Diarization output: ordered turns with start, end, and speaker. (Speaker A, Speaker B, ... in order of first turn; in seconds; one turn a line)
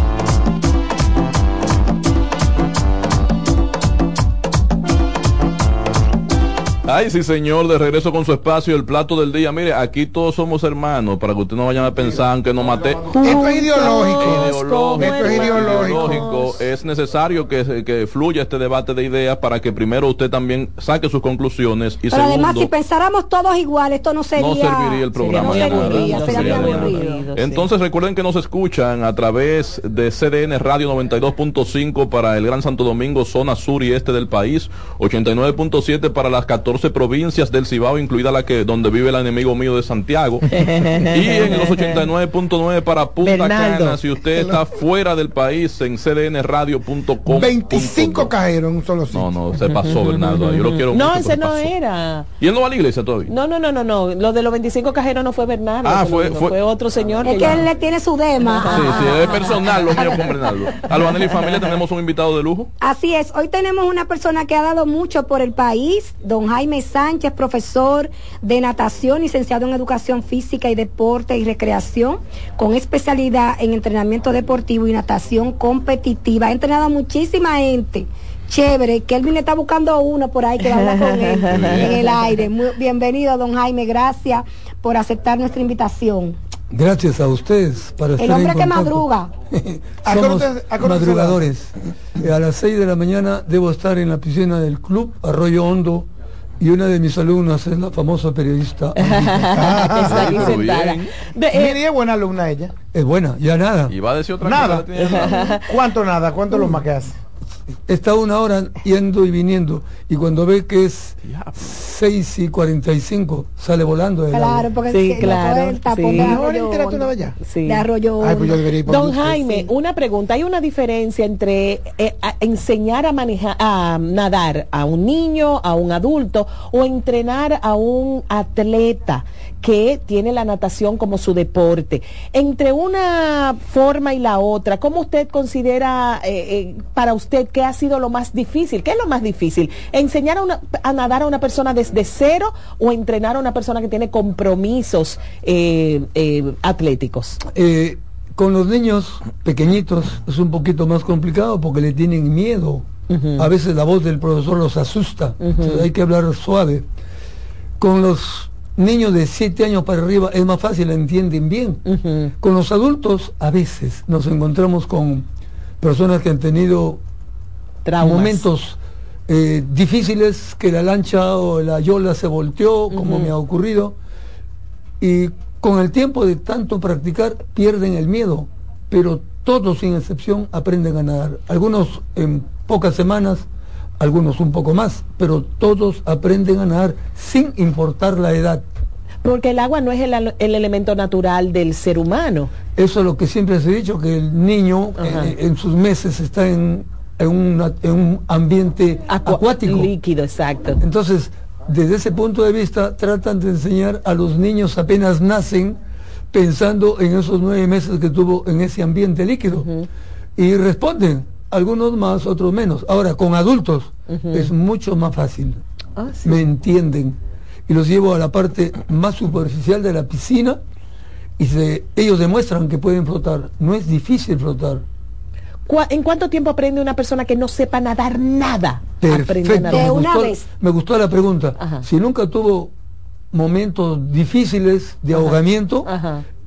Speaker A: 6.9-13.2
Speaker B: 13.1-16.6
Speaker C: 13.2-16.3
Speaker A: 13.8-22.7
Speaker D: 22.1-27.2
Speaker A: 24.4-48.3
Speaker B: 25.2-27.6
Speaker B: 40.5-42.0
Speaker B: 43.2-44.0
Speaker C: 47.3-49.3
Speaker A: 49.1-51.7
Speaker B: 49.6-52.3
Speaker A: 52.4-53.3
Speaker B: 53.3-57.7
Speaker A: 55.8-56.6
Speaker D: 57.2-59.2
Speaker B: 58.5-61.5
Speaker A: 58.7-62.7
Speaker D: 62.8-86.4
Speaker B: 80.7-82.2
Speaker A: 81.5-81.9
Speaker E: 86.7-96.1
Speaker D: 88.2-89.3
Speaker C: 90.1-91.4
Speaker E: 96.6-99.7
Speaker B: 99.0-101.8
Speaker C: 99.5-100.6
Speaker A: 100.0-101.0
Speaker C: 101.5-102.7
Speaker E: 102.9-104.0
Speaker A: 103.9-105.6
Speaker C: 104.4-107.1
Speaker B: 105.0-105.6
Speaker E: 107.9-114.7
Speaker A: 111.3-111.6
Speaker D: 114.3-117.1
Speaker B: 114.9-116.4
Speaker C: 116.1-117.4
Speaker B: 117.4-117.9
Speaker D: 117.6-118.7
Speaker C: 118.2-119.4
Speaker B: 118.9-147.4
Speaker E: 147.5-156.9
Speaker B: 153.1-153.5
Speaker B: 155.4-155.9
Speaker E: 157.8-161.8
Speaker B: 161.9-162.3
Speaker E: 162.4-165.3
Speaker E: 165.8-167.0
Speaker B: 167.8-168.4
Speaker E: 168.0-174.0
Speaker B: 172.9-173.3
Speaker E: 175.0-183.5
Speaker E: 184.0-188.7
Speaker B: 189.2-192.5
Speaker E: 192.8-199.9
Speaker B: 195.0-195.3
Speaker B: 199.1-200.8
Speaker E: 200.8-205.8
Speaker E: 206.3-209.7
Speaker E: 210.4-215.6
Speaker B: 214.1-214.5
Speaker B: 216.0-216.4
Speaker E: 216.2-220.6
Speaker E: 221.4-224.8
Speaker B: 225.7-230.0
Speaker E: 229.0-232.7
Speaker D: 229.6-230.4
Speaker E: 233.3-235.9
Speaker B: 235.1-236.2